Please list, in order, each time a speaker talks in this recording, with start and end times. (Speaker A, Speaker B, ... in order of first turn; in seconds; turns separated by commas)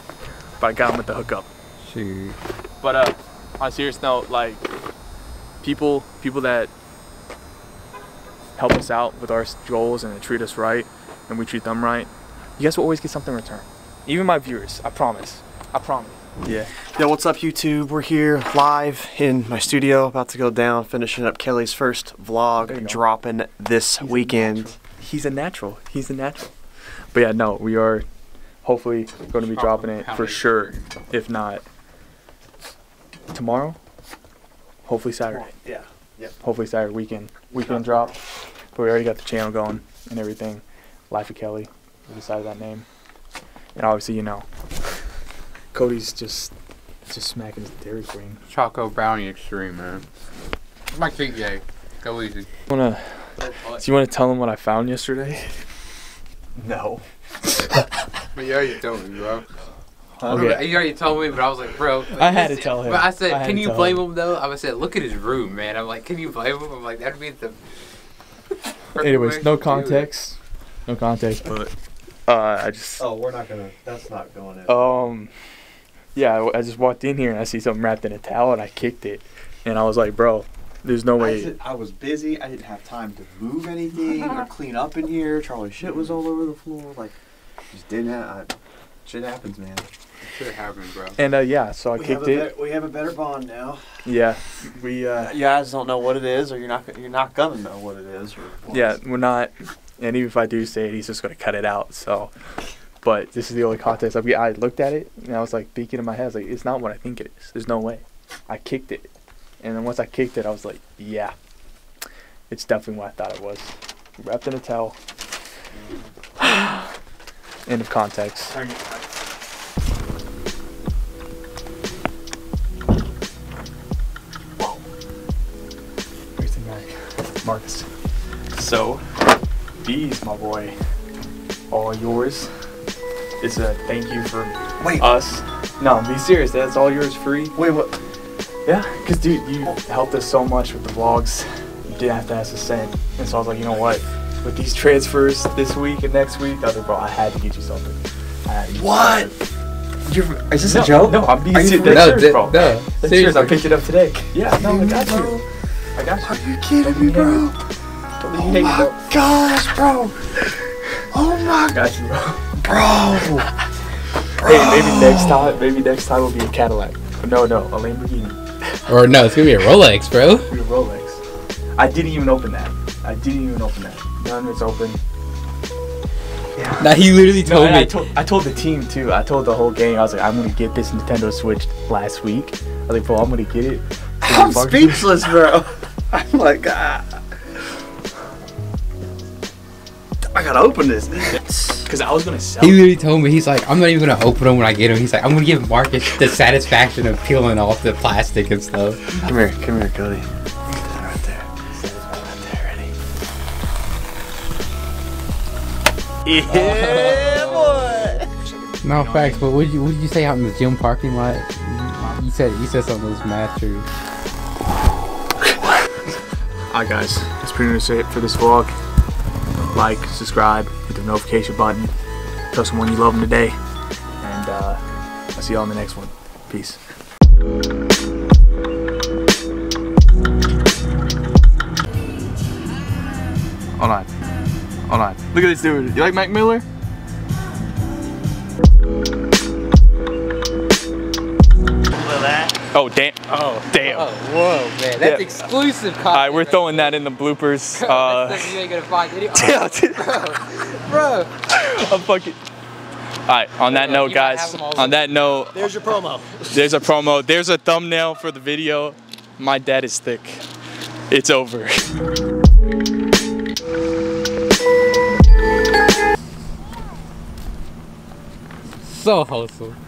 Speaker A: 0.6-1.5, Speaker B: 1.8-2.4, Speaker A: 2.8-4.7, Speaker A: 5.6-6.7, Speaker A: 8.6-16.7, Speaker C: 16.8-24.7, Speaker A: 22.6-23.0, Speaker A: 24.0-26.5, Speaker A: 27.1-28.0, Speaker A: 28.6-31.6, Speaker B: 29.5-30.5, Speaker A: 33.3-33.8, Speaker A: 34.9-35.5, Speaker C: 35.3-36.3, Speaker A: 36.4-38.1, Speaker C: 37.6-38.0, Speaker A: 38.7-42.9, Speaker A: 43.8-44.5, Speaker A: 45.7-46.5, Speaker A: 47.0-48.4, Speaker B: 48.5-50.0, Speaker B: 50.9-52.5, Speaker A: 52.7-55.5, Speaker B: 53.4-53.8, Speaker A: 56.6-57.0, Speaker B: 58.3-59.5, Speaker A: 60.2-60.8, Speaker B: 60.2-67.6, Speaker A: 62.1-64.0, Speaker B: 68.9-70.1, Speaker A: 69.0-71.7, Speaker A: 72.3-73.0, Speaker C: 73.0-74.9, Speaker A: 74.7-75.3, Speaker A: 76.1-81.5, Speaker C: 81.2-87.1, Speaker C: 87.7-89.9, Speaker B: 90.3-91.2, Speaker A: 91.2-92.5, Speaker C: 91.9-94.1, Speaker A: 94.0-95.4, Speaker C: 95.2-99.0, Speaker A: 98.7-102.3, Speaker A: 103.0-109.1, Speaker A: 109.6-111.3, Speaker A: 112.5-115.0, Speaker A: 116.4-116.8, Speaker A: 117.7-118.6, Speaker A: 126.3-126.9, Speaker A: 127.4-127.9, Speaker A: 128.5-129.0, Speaker A: 129.8-130.7, Speaker A: 131.7-132.5, Speaker A: 133.4-137.6, Speaker C: 134.8-135.1, Speaker C: 137.5-137.9, Speaker A: 138.7-149.3, Speaker C: 148.8-149.3, Speaker C: 150.1-152.3, Speaker A: 150.6-155.4, Speaker B: 151.8-153.6, Speaker C: 154.5-155.4, Speaker A: 155.9-157.5, Speaker C: 156.2-157.6, Speaker A: 158.2-158.9, Speaker C: 158.3-160.2, Speaker C: 161.1-161.8, Speaker A: 161.7-162.6, Speaker C: 162.6-163.5, Speaker C: 164.4-165.5, Speaker A: 164.4-168.4, Speaker B: 168.9-170.5, Speaker A: 170.5-171.2, Speaker A: 171.8-175.0, Speaker A: 176.6-185.1, Speaker B: 176.8-178.0, Speaker C: 184.2-187.2, Speaker C: 190.2-191.8, Speaker A: 191.8-192.8, Speaker B: 192.6-199.0, Speaker C: 199.1-201.5, Speaker A: 201.7-202.8, Speaker C: 202.3-202.6, Speaker C: 206.5-207.9, Speaker B: 206.5-207.8, Speaker D: 206.5-207.2, Speaker B: 208.8-213.9, Speaker A: 208.9-209.4, Speaker A: 216.7-218.7, Speaker A: 219.7-221.9, Speaker A: 222.5-223.6, Speaker A: 224.2-224.8, Speaker A: 225.3-226.8, Speaker A: 233.8-234.1, Speaker A: 234.9-236.6, Speaker D: 241.9-242.6, Speaker A: 242.7-244.1, Speaker B: 243.3-247.0, Speaker A: 245.0-245.5, Speaker A: 246.1-248.6, Speaker B: 247.8-251.3, Speaker A: 249.3-250.2, Speaker A: 251.5-252.4, Speaker A: 253.3-255.7, Speaker B: 253.7-255.1, Speaker D: 255.5-256.5, Speaker A: 256.5-260.4, Speaker A: 261.1-261.9, Speaker B: 268.8-269.8